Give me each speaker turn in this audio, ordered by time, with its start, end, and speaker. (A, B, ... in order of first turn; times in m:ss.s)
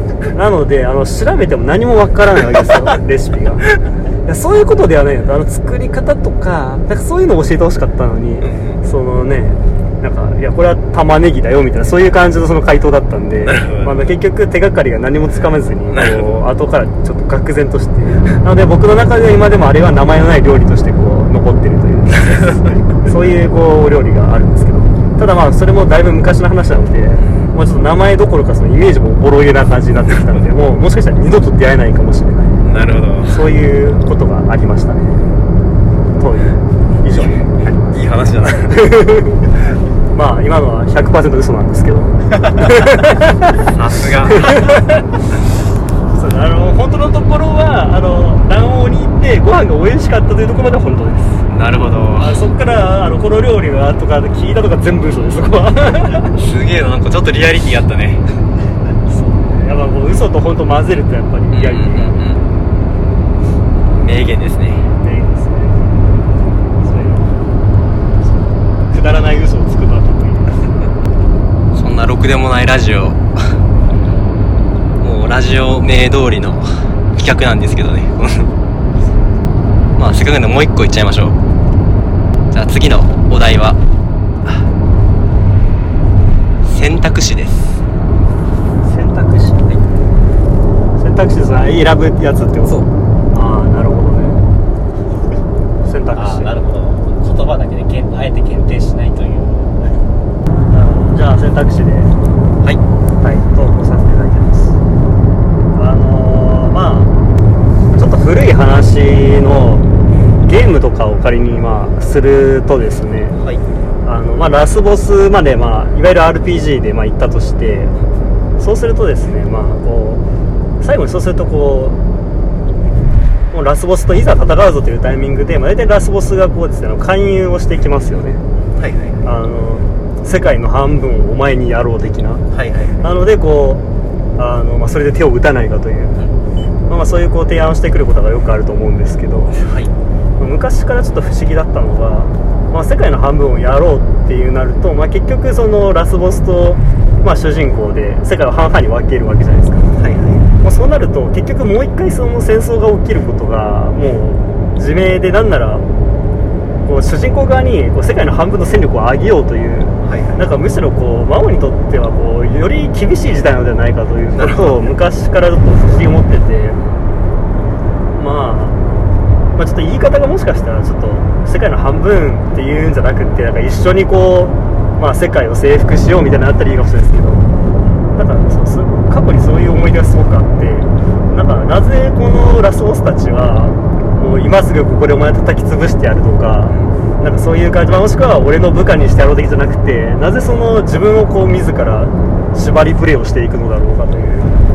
0:00.3-0:03.7 A
0:04.2-0:32.6 A
0:08.4-0:08.8 B
0:13.4-0:14.1 B
0:15.9-0:16.2 B
0:27.2-0:27.6 B
0:32.6-0:33.4 B
0:33.2-0:35.2 A
0:36.2-0:37.4 A
0:37.9-0:38.9 B
0:38.7-0:39.5 A
0:40.1-0:43.7 A
0:43.6-0:44.7 B
0:44.4-0:44.8 A
0:46.1-0:51.4 A
0:51.5-0:52.5 B
0:52.2-0:56.4 A
0:56.3-0:58.2 B
0:59.1-1:02.2 A
1:01.5-1:02.4 B
1:04.0-1:04.9 B
1:05.0-1:06.0 A
1:06.8-1:07.3 A
1:08.9-1:10.6 A
1:11.7-1:13.2 B
1:15.0-1:18.5 B
1:20.0-1:21.4 B
1:22.5-1:23.8 B
1:26.6-1:27.8 B
1:28.8-1:29.7 A
1:31.0-1:32.8 A
1:33.3-1:34.4 A
1:35.8-1:36.5 A
1:36.1-1:40.0 C
1:40.7-1:42.1 A
1:43.2-1:44.8 A
1:45.7-1:47.1 A
1:48.0-1:49.9 A
1:50.5-1:53.4 A
1:54.0-1:57.9 A
1:58.6-2:00.2 A
2:00.8-2:02.0 A
2:03.5-2:08.4 A
2:08.8-2:09.2 B
2:09.2-2:12.4 A
2:12.5-2:13.0 B
2:13.0-2:13.8 A
2:14.4-2:16.2 A
2:16.9-2:19.6 A
2:19.5-2:19.9 B
2:20.4-2:29.9 A
2:29.9-2:30.5 B
2:30.6-2:35.8 A
2:36.8-2:46.8 A
2:40.0-2:40.4 B
2:44.4-2:44.8 B
2:48.1-2:48.8 A
2:49.6-2:57.4 A
2:58.2-3:14.6 A
3:06.7-3:07.0 B